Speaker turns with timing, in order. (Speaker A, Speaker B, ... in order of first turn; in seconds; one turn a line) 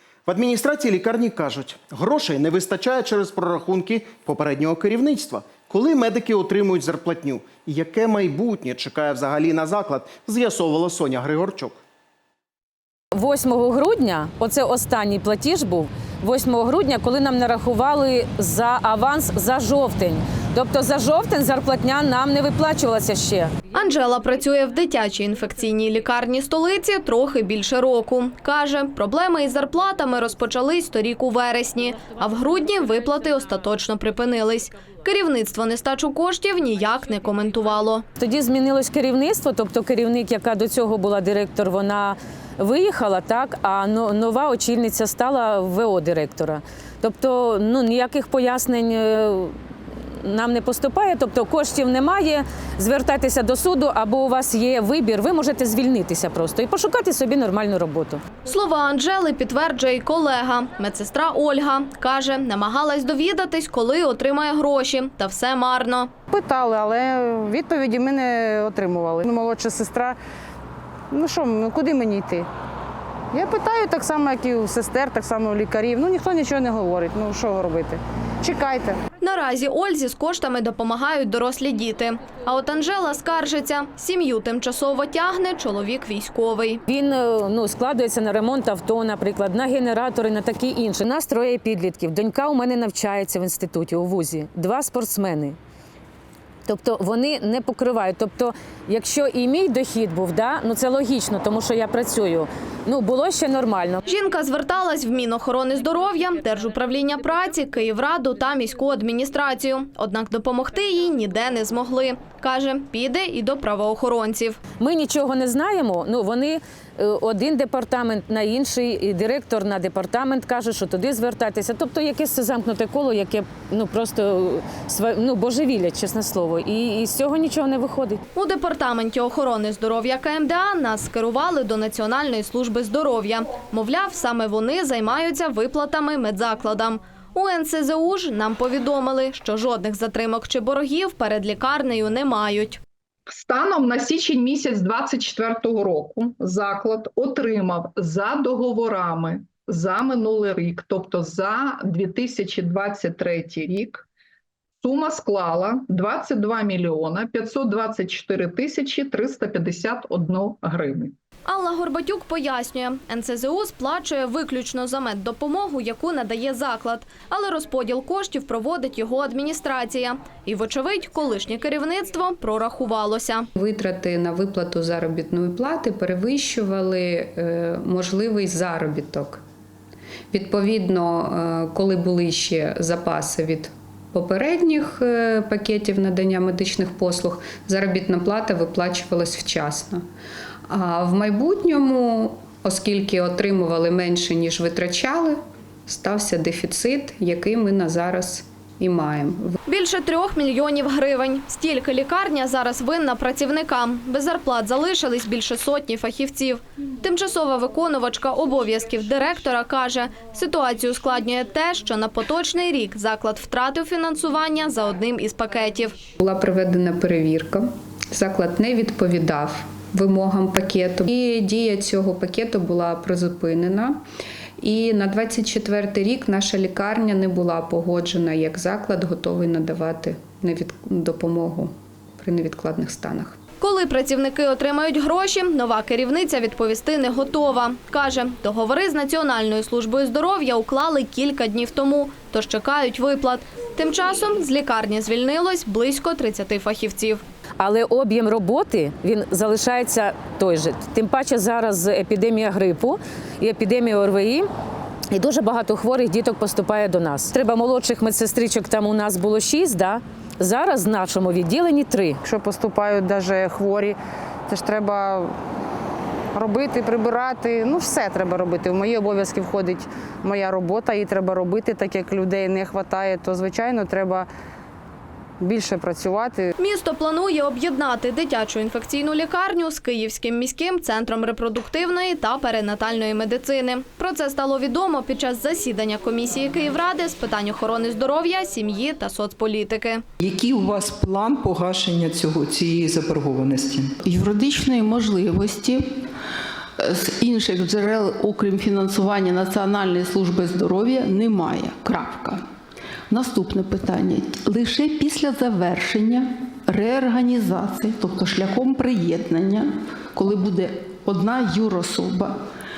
Speaker A: 0.3-11.8
Speaker B: 13.1-23.5
Speaker C: 23.7-38.0
Speaker B: 38.2-49.5
Speaker B: 50.2-58.2
Speaker C: 58.5-66.1
Speaker D: 66.3-70.2
Speaker D: 71.1-72.5
Speaker D: 73.3-79.0
Speaker C: 79.2-86.8
Speaker B: 86.8-95.6
Speaker B: 96.7-104.0
Speaker C: 104.0-114.6
Speaker B: 114.8-128.2
Speaker C: 128.3-142.8
Speaker E: 143.3-154.0
Speaker E: 154.8-161.1
Speaker C: 161.4-173.5
Speaker F: 173.6-179.4
Speaker F: 180.3-190.0
Speaker F: 190.7-199.6
Speaker C: 199.7-216.0
Speaker F: 216.2-224.0
Speaker F: 224.6-233.4
Speaker C: 233.6-247.2
Speaker B: 247.6-254.5
Speaker B: 255.1-262.2
Speaker D: 262.2-264.0
Speaker D: 264.5-265.3
Speaker D: 266.3-274.3
Speaker D: 275.4-276.5
Speaker C: 276.6-290.0
Speaker G: 290.2-293.8
Speaker H: 294.0-296.0
Speaker H: 296.8-302.4
Speaker H: 303.1-312.4